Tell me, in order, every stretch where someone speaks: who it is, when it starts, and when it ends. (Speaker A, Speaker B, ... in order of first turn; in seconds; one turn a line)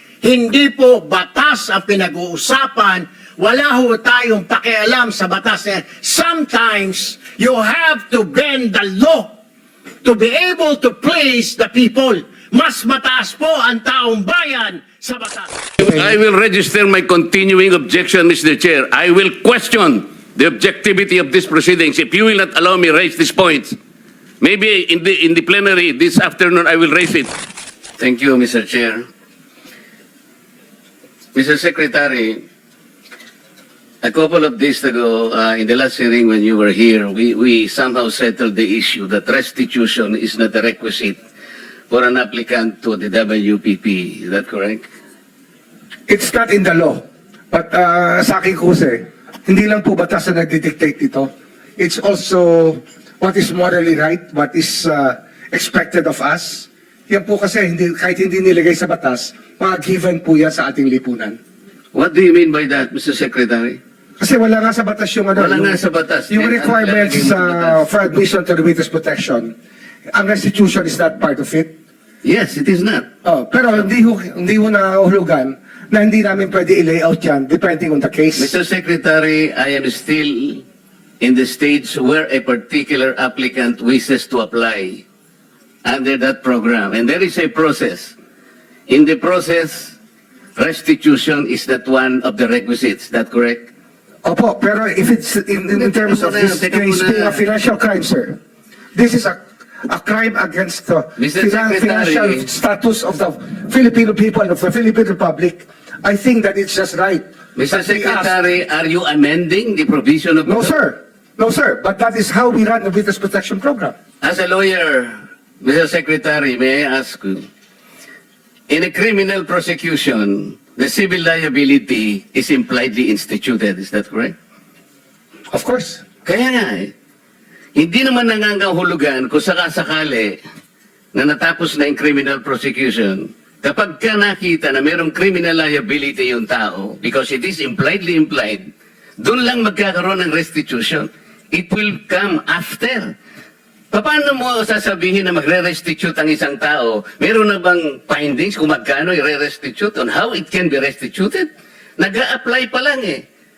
Speaker A: 0.2-9.3
Speaker A: 10.0-15.5
Speaker B: 15.8-23.8
Speaker B: 24.4-27.3
Speaker B: 28.0-29.1
Speaker B: 31.4-32.4
Speaker B: 34.0-41.2
Speaker B: 41.9-44.9
Speaker C: 46.1-61.4
Speaker B: 61.9-63.8
Speaker C: 64.2-69.5
Speaker B: 65.4-67.8
Speaker C: 70.1-71.7
Speaker B: 72.2-73.1
Speaker C: 73.2-78.6
Speaker B: 78.4-80.6
Speaker B: 81.2-85.0
Speaker B: 85.8-88.1
Speaker B: 88.9-90.0
Speaker B: 90.6-93.7
Speaker C: 94.2-98.4
Speaker B: 95.7-97.4
Speaker C: 99.0-108.4
Speaker B: 101.2-102.5
Speaker B: 107.6-110.7
Speaker C: 110.5-113.9
Speaker B: 114.2-117.5
Speaker B: 118.7-124.3
Speaker C: 125.5-126.0
Speaker B: 126.2-126.9
Speaker B: 127.8-130.3
Speaker B: 131.1-138.7
Speaker B: 139.2-143.1
Speaker B: 143.9-151.5
Speaker B: 152.0-153.2